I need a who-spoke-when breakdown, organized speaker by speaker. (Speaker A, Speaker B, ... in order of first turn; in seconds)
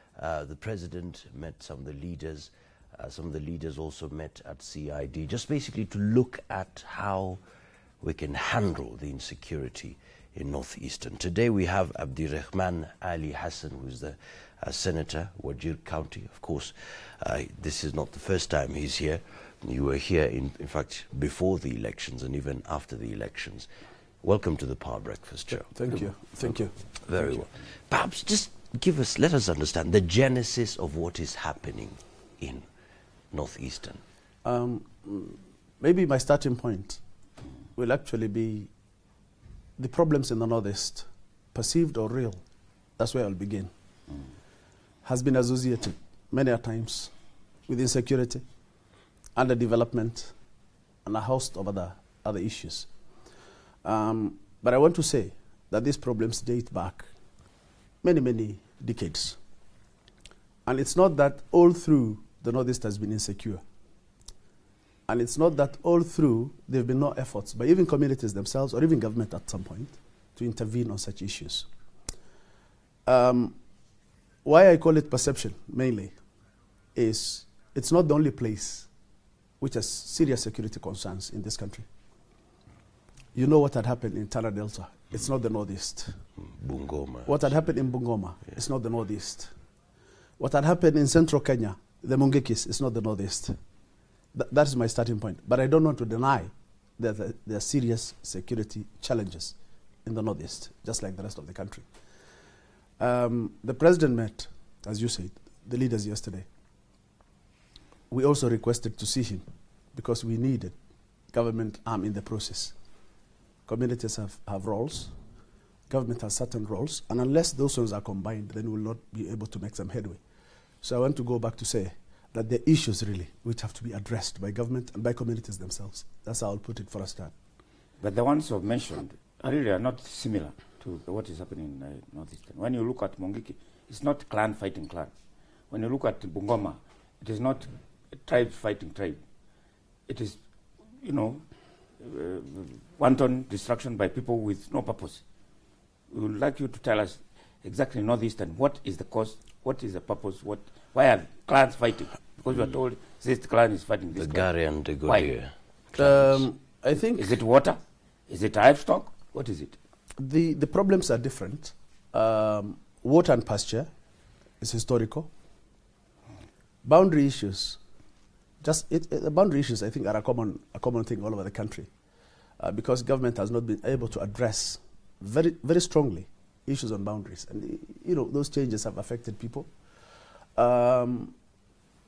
Speaker A: 0.1-7.4, 8.0-23.7, 24.2-26.1, 26.9-32.7, 33.3-34.0, 86.4-87.5, 154.1-156.4
Speaker B: 25.5-26.7, 34.4-37.0, 37.8-38.7, 39.8-42.4, 43.0-43.7, 45.0-47.1, 47.7-48.4, 49.3-50.3, 51.0-52.9, 53.8-57.1, 58.0-59.4, 60.6-63.6, 65.1-71.7, 73.0-73.6, 74.4-76.1, 76.9-78.9, 79.6-81.9, 83.3-86.2, 87.2-89.5, 90.4-93.6, 94.3-101.8, 103.0-106.5, 108.1-110.8, 111.3-112.7, 113.7-115.1, 115.9-120.2, 120.8-127.3, 156.0-157.3, 160.2-163.9, 164.6-165.3, 166.8-167.8, 168.6-171.9, 172.6-179.7, 180.6-181.3
Speaker C: 128.0-135.1, 135.7-139.2, 140.1-140.4, 141.0-141.4, 142.0-145.2, 146.1-154.5, 155.1-155.3, 157.1-159.8